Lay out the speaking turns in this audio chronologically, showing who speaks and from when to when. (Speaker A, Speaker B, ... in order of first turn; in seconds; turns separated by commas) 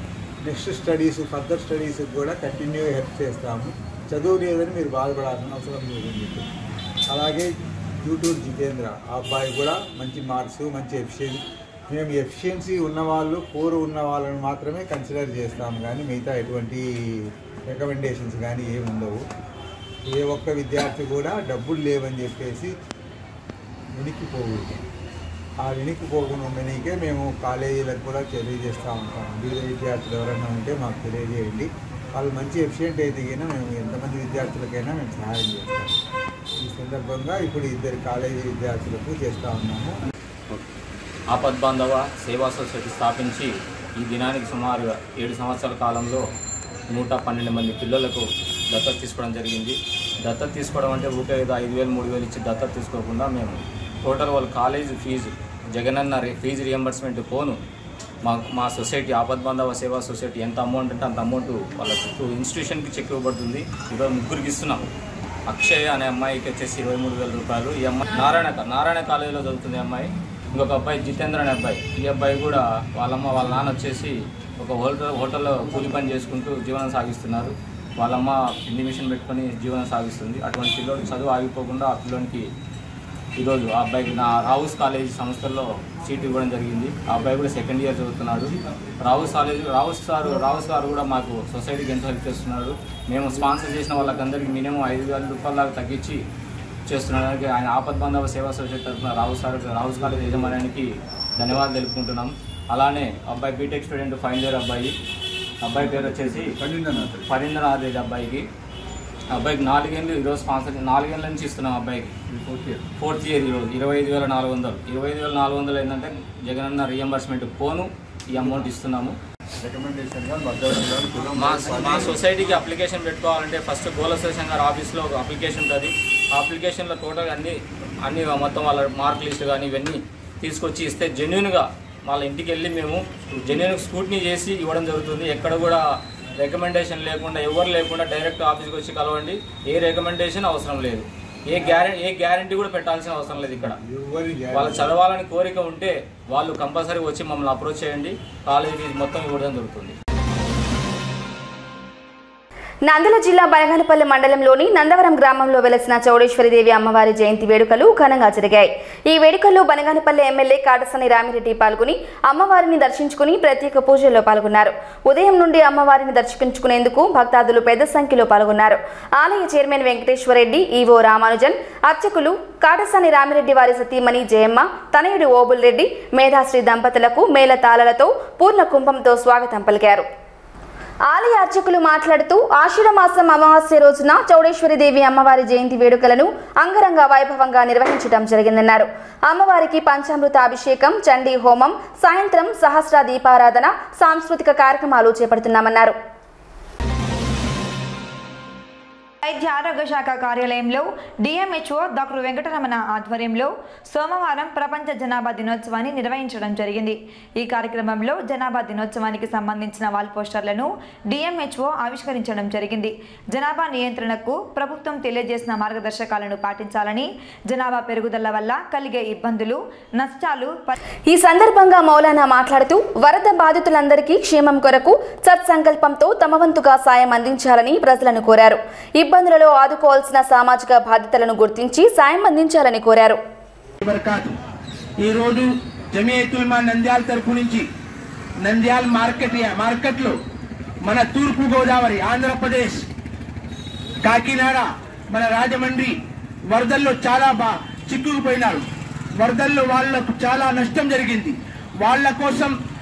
Speaker A: 0.4-6.4, Speaker A: 7.1-7.5, Speaker A: 8.0-16.8, Speaker A: 17.7-19.2, Speaker A: 20.1-22.7, Speaker A: 23.9-24.8, Speaker A: 25.6-35.9, Speaker A: 36.6-39.9, Speaker B: 41.3-46.2, Speaker B: 46.9-57.6, Speaker B: 58.2-64.8, Speaker B: 65.5-82.5, Speaker B: 83.4-96.2, Speaker B: 96.9-104.9, Speaker B: 105.6-106.6, Speaker A: 105.8-107.3, Speaker B: 107.2-108.5, Speaker B: 109.3-112.1, Speaker A: 112.3-112.9, Speaker B: 113.0-119.2, Speaker A: 119.6-122.3, Speaker B: 121.3-135.8, Speaker B: 136.4-143.8, Speaker A: 143.7-144.9, Speaker B: 144.5-149.9, Speaker C: 152.9-180.1, Speaker C: 181.1-196.0, Speaker D: 199.2-220.8, Speaker C: 221.1-233.2, Speaker E: 233.8-234.3, Speaker E: 235.0-237.7, Speaker E: 238.4-240.2, Speaker E: 240.8-242.8, Speaker E: 244.0-245.9, Speaker E: 246.5-248.6, Speaker E: 249.2-252.5